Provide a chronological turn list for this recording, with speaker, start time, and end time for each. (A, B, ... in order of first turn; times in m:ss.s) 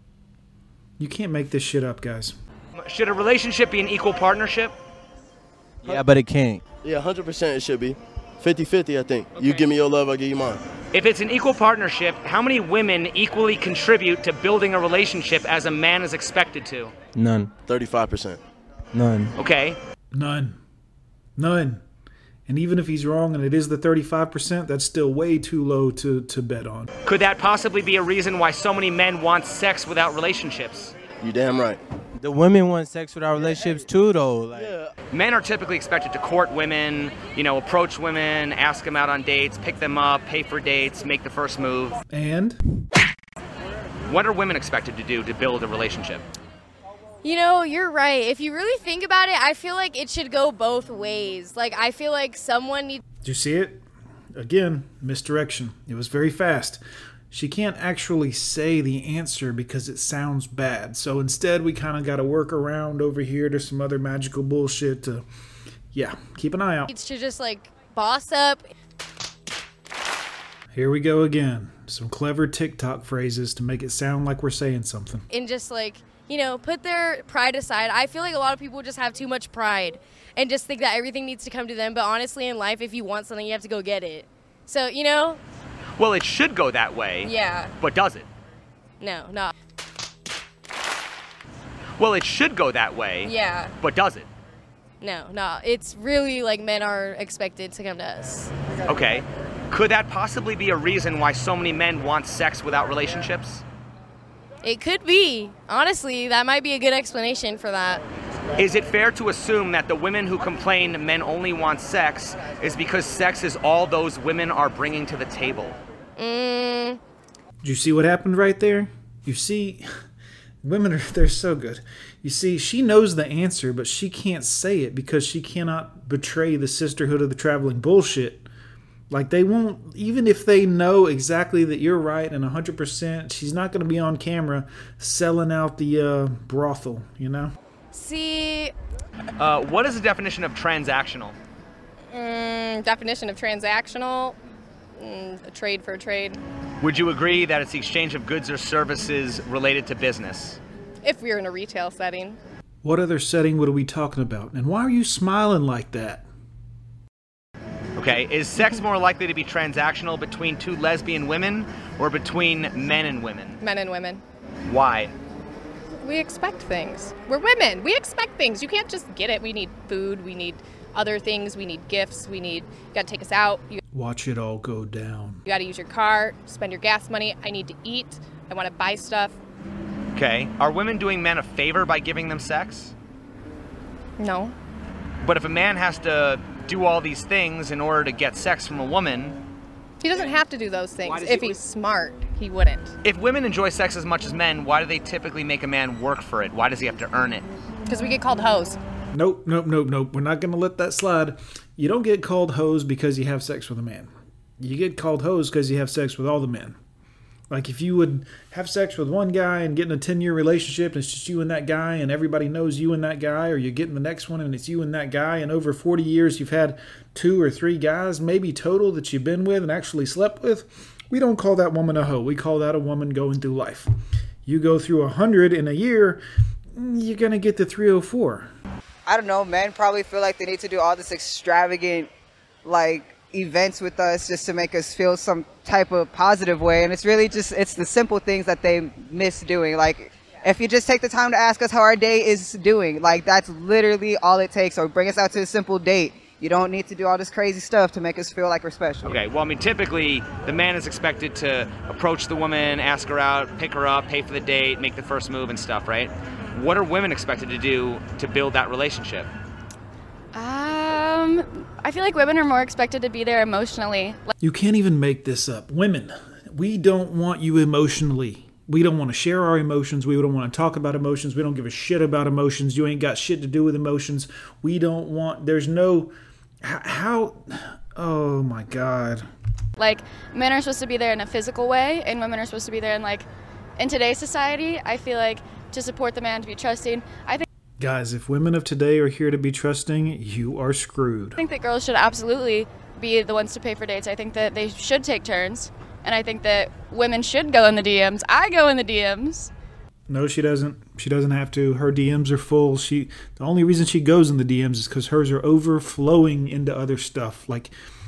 0:01.0-0:02.4 A
0:02.8-0:04.7 B
0:05.8-0:06.1 C
0:05.9-0:06.6 D
0:06.8-0:10.6 C
0:09.4-0:09.7 B
0:10.9-0:16.9 B
0:17.2-0:17.5 D
0:17.7-0:18.4 C
0:18.9-0:19.3 D
0:19.4-0:19.8 B
0:20.1-0:20.6 A
0:21.4-0:21.8 A
0:22.5-0:26.9 A
0:27.1-0:31.0 B
0:31.2-0:31.8 C
0:32.2-0:34.8 D
0:34.5-0:34.9 C
0:35.1-0:42.0 B
0:42.1-0:42.6 A
0:44.1-0:46.2 B
0:47.2-0:53.0 E
0:53.2-0:53.8 A
0:54.4-1:05.3 A
1:05.9-1:06.9 A
1:06.9-1:08.7 E
1:10.7-1:15.3 A
1:15.3-1:25.4 E
1:26.0-1:28.3 B
1:27.2-1:27.8 E
1:29.0-1:29.5 E
1:32.0-1:34.3 B
1:33.2-1:33.8 E
1:35.0-1:38.5 E
1:38.9-1:43.6 B
1:44.6-1:48.0 E
1:48.6-1:55.8 B
1:56.2-1:57.0 E
1:57.6-1:59.8 A
2:00.6-2:08.5 A
2:09.1-2:17.5 A
2:17.9-2:18.7 E
2:19.4-2:21.3 B
2:22.1-2:24.4 E
2:25.0-2:26.4 E
2:25.5-2:26.4 F
2:26.8-2:30.6 B
2:31.0-2:31.7 F
2:31.1-2:32.4 E
2:32.8-2:36.2 A
2:38.0-2:43.6 B
2:43.6-2:44.2 F
2:43.7-2:44.2 E
2:44.6-2:45.1 B
2:46.0-2:53.8 F
2:46.0-2:53.7 E
2:53.9-2:55.4 A
2:55.5-2:59.3 F
2:55.5-2:58.8 E
3:00.2-3:02.9 B
3:04.2-3:04.5 E
3:05.2-3:09.4 B
3:10.0-3:11.7 F
3:10.1-3:12.9 E
3:11.1-3:11.6 B
3:12.3-3:12.8 F
3:13.0-3:17.5 B
3:17.9-3:18.7 F
3:17.9-3:18.8 E
3:19.1-3:26.8 A
3:27.5-3:43.9 A
3:44.5-3:46.2 A
3:46.8-3:48.5 A
3:49.0-3:52.1 G
3:52.6-4:09.2 G
4:09.0-4:19.3 B
4:20.3-4:24.3 H
4:24.4-4:39.3 A
4:39.8-4:47.4 H
4:47.8-4:51.4 A
4:51.4-4:59.5 H
5:00.1-5:07.7 A